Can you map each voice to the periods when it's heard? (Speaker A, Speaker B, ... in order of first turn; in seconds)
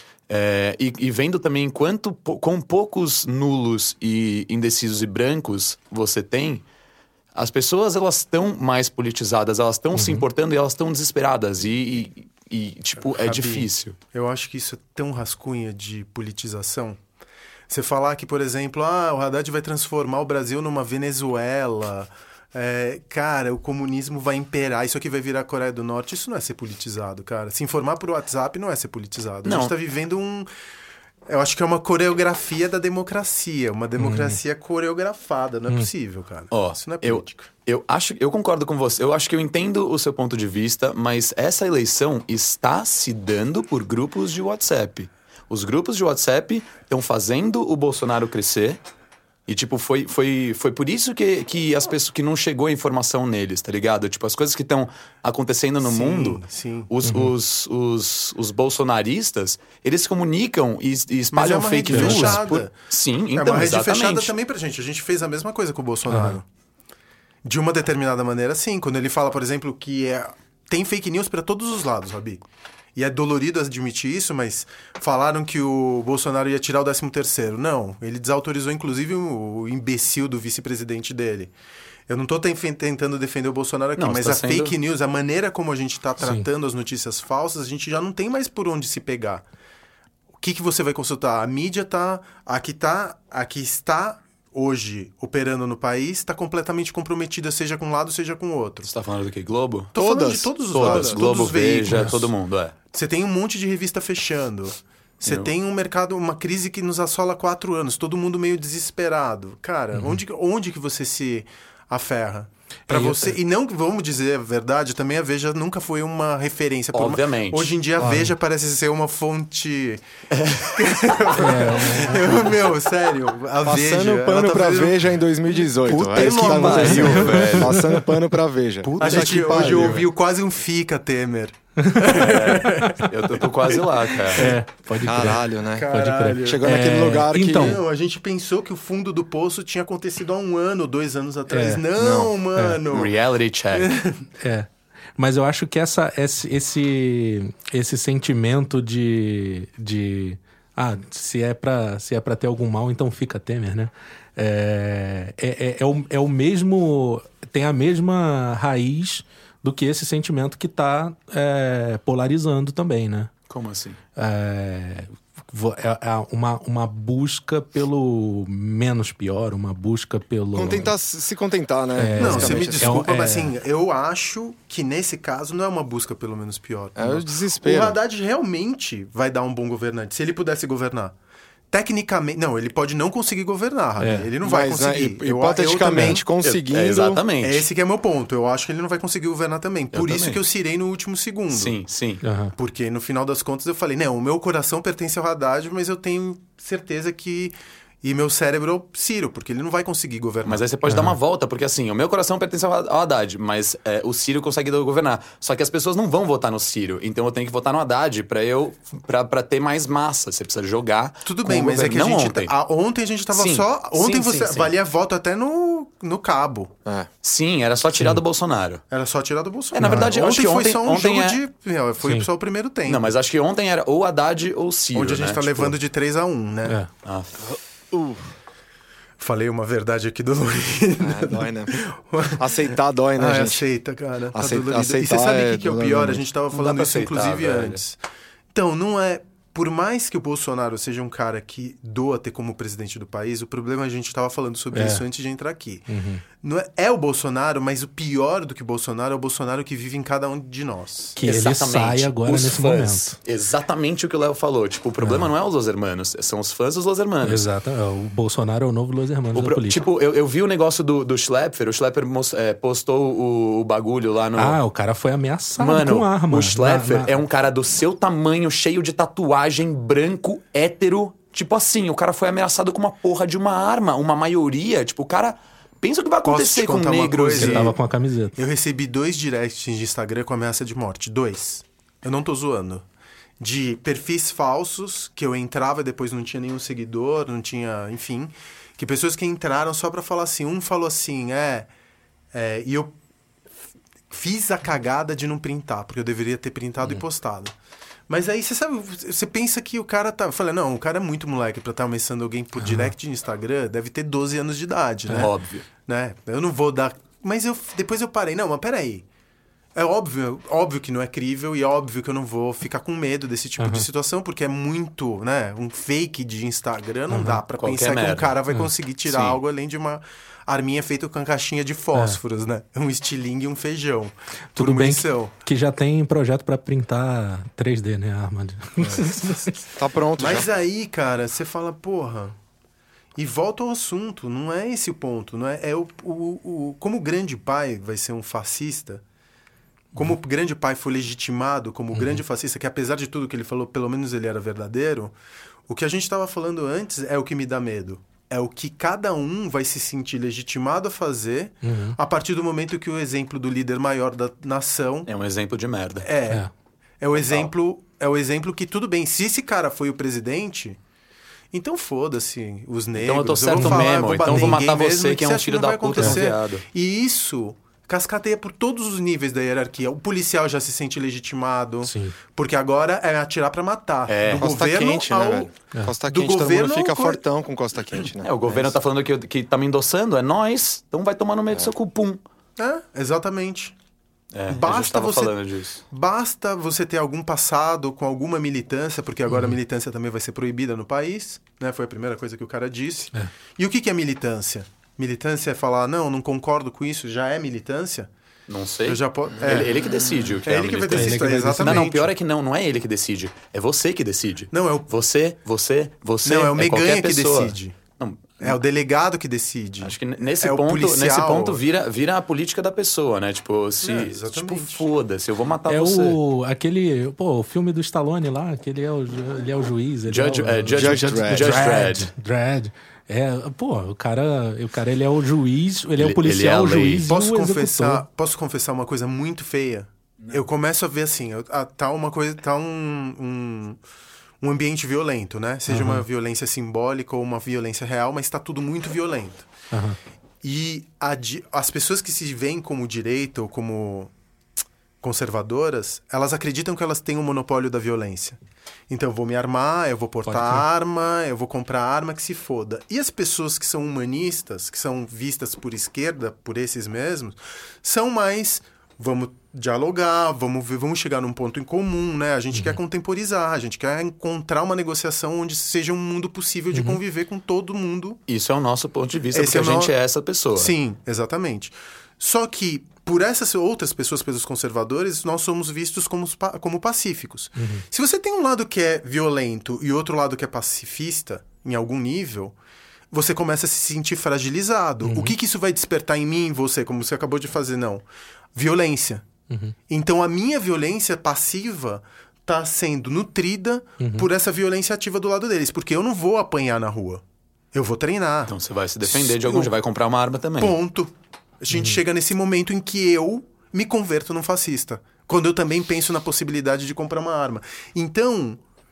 Speaker A: 0.3-6.6, 7.3-14.0, 29.4-29.7, 36.5-48.8, 49.5-64.3, 84.0-84.8, 98.8-100.0, 100.7-102.8, 105.3-105.5, 116.9-117.8, 120.3-120.9, 126.1-127.8, 132.1-134.5, 142.0-142.3, 142.9-144.0, 163.5-164.0, 186.4-187.7, 189.9-190.4, 191.5-192.2, 200.4-212.5, 213.3-214.7, 217.2-218.8, 219.7-221.4, 222.9-225.8, 227.0-227.4, 236.5-237.8, 251.2-257.5, 259.3-264.6, 265.6-277.8, 305.1-305.6, 317.5-318.4, 319.1-319.4, 355.1-356.1, 363.0-366.6, 374.1-374.6, 378.2-382.2, 384.3-385.8, 398.5-408.6, 409.8-416.2, 420.1-422.1, 426.0-427.1, 468.3-470.7, 498.5-500.8
Speaker B: 9.9-10.3, 34.0-34.4, 57.1-57.3, 61.9-62.4, 66.1-66.4, 86.2-86.5, 101.9-102.3, 109.9-110.2, 112.9-113.3, 118.0-118.3, 121.3-122.5, 126.7-128.1, 131.8-133.0, 134.3-137.8, 141.5-141.9, 142.6-142.8, 144.4-163.3, 164.2-170.9, 172.0-173.5, 184.0-184.3, 185.9-186.2, 192.2-192.5, 200.9-201.2, 219.8-220.1, 244.7-245.0, 245.9-246.2, 251.2-253.2, 255.0-255.3, 257.2-259.8, 264.4-267.1, 277.4-278.4, 302.6-302.9, 313.6-313.9, 317.1-317.4, 324.6-329.6, 341.9-342.2, 351.6-352.0, 363.6-364.6, 371.8-372.2, 389.3-389.6, 400.9-401.9, 415.7-428.1, 435.7-436.0, 439.7-440.0, 450.3-450.6, 466.7-467.0, 477.6-477.9, 485.0-485.4, 489.5-489.8, 494.0-494.3, 501.7-502.0
Speaker C: 13.2-17.0, 17.7-30.5, 31.3-37.5, 55.8-56.9, 61.3-62.7, 63.3-66.5, 67.5-72.4, 73.0-81.5, 82.1-89.4, 90.4-98.9, 99.9-102.2, 102.9-120.0, 120.6-127.4, 128.8-133.1, 135.7-136.8, 137.5-143.1, 143.7-144.2, 172.2-181.2, 181.7-186.2, 187.4-191.8, 192.6-200.6, 211.2-216.7, 218.9-223.1, 224.9-226.8, 229.2-238.0, 238.5-245.9, 246.4-251.2, 276.2-277.8, 278.4-282.9, 283.4-291.7, 292.3-293.0, 294.1-297.6, 298.1-309.1, 309.8-325.3, 328.8-329.6, 330.2-332.4, 333.2-339.0, 339.9-345.1, 345.7-355.1, 356.0-356.4, 357.0-360.8, 361.5-375.5, 376.0-377.2, 382.6-383.8, 384.5-385.4, 385.9-398.1, 398.9-402.1, 404.5-404.9, 406.2-407.8, 408.4-411.6, 413.8-414.8, 427.1-433.8, 434.4-439.5, 440.4-444.1, 445.0-448.4, 448.9-468.2, 469.3-469.9, 470.6-482.6, 483.1-489.3, 489.9-499.7, 500.6-508.6
Speaker D: 100.0-101.3, 123.6-130.1, 135.0-135.9, 136.4-137.8, 170.6-173.0, 177.0-178.0, 184.4-187.2, 227.5-228.3, 231.0-231.8, 232.4-233.6, 234.3-236.2, 329.8-330.5, 374.4-378.8, 420.7-421.6